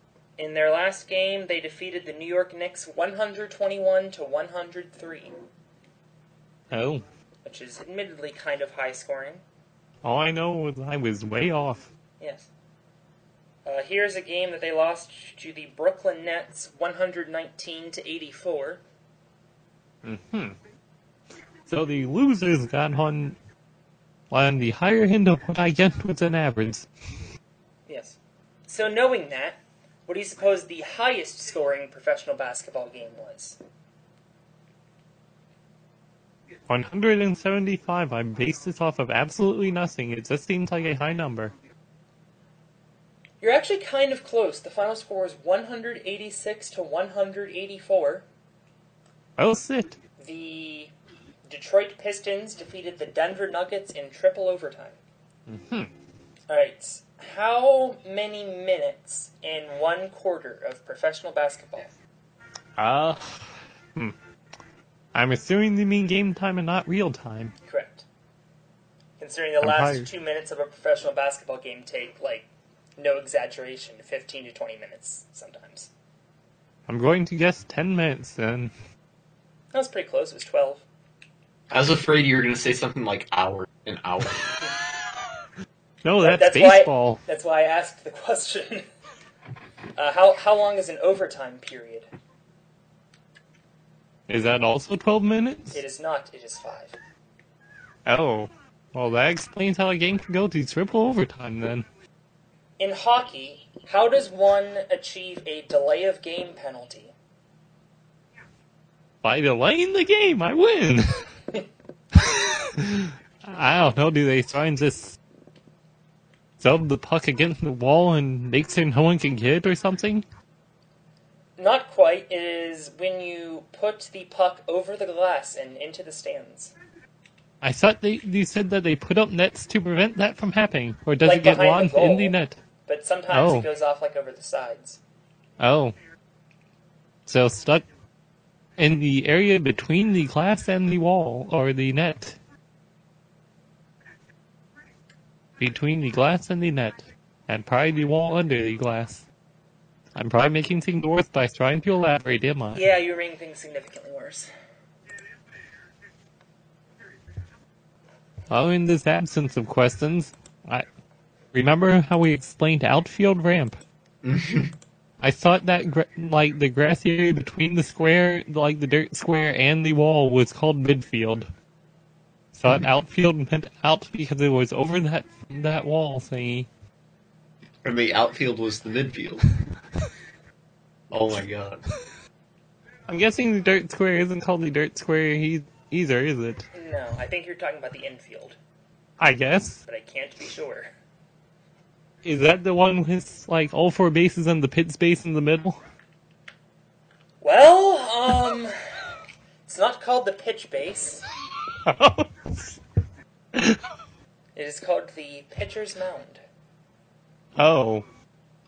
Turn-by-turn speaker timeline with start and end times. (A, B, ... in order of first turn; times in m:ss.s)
0:00.4-0:05.3 A
0:06.7-0:07.0 B
0:07.4-0:09.4 A
0:10.0-0:11.9 B
0:12.2-0:12.5 A
0:13.7-0:18.8 A
0:20.0-0:20.6 B
0:21.7-0:23.4 B
0:24.3-0:26.9 B
0:27.9-0:33.6 A
0:36.7-0:41.5 B
0:43.4-0:48.2 A
0:49.4-0:50.0 B
0:50.2-0:50.9 A
0:51.5-0:55.0 A
0:55.5-0:55.9 B
0:56.5-1:01.9 A
1:02.8-1:04.2 B
1:05.1-1:07.5 B
1:07.7-1:08.1 A
1:09.2-1:15.9 A
1:09.6-1:10.1 B
1:16.9-1:18.7 B
1:19.7-1:20.8 A
1:21.7-1:24.6 C
1:26.0-1:27.2 B
1:26.2-1:28.9 A
1:30.0-1:32.1 A
1:34.3-1:35.8 B
1:35.7-1:37.0 A
1:38.1-1:41.9 B
1:42.8-1:47.1 A
1:49.2-1:51.3 B
1:52.2-1:55.2 B
1:56.6-2:00.2 B
2:01.6-2:06.7 A
2:07.6-2:12.6 B
2:11.2-2:12.4 A
2:12.9-2:15.0 A
2:13.3-2:13.7 B
2:15.6-2:16.0 B
2:17.3-2:17.8 B
2:18.8-2:22.4 B
2:25.6-2:29.2 B
2:30.2-2:32.8 B
2:32.7-2:34.5 A
2:38.5-2:40.9 B
2:41.5-2:43.8 B
2:44.2-2:44.7 C
2:45.2-2:51.5 B
2:52.5-2:56.7 B
2:57.8-2:59.4 C
3:01.1-3:01.8 C
3:03.1-3:06.7 B
3:06.7-3:08.6 A
3:09.2-3:09.8 B
3:09.9-3:10.9 A
3:12.2-3:15.8 B
3:17.4-3:18.7 A
3:19.7-3:21.2 A
3:21.8-3:22.8 B
3:24.6-3:26.4 A
3:27.6-3:28.0 B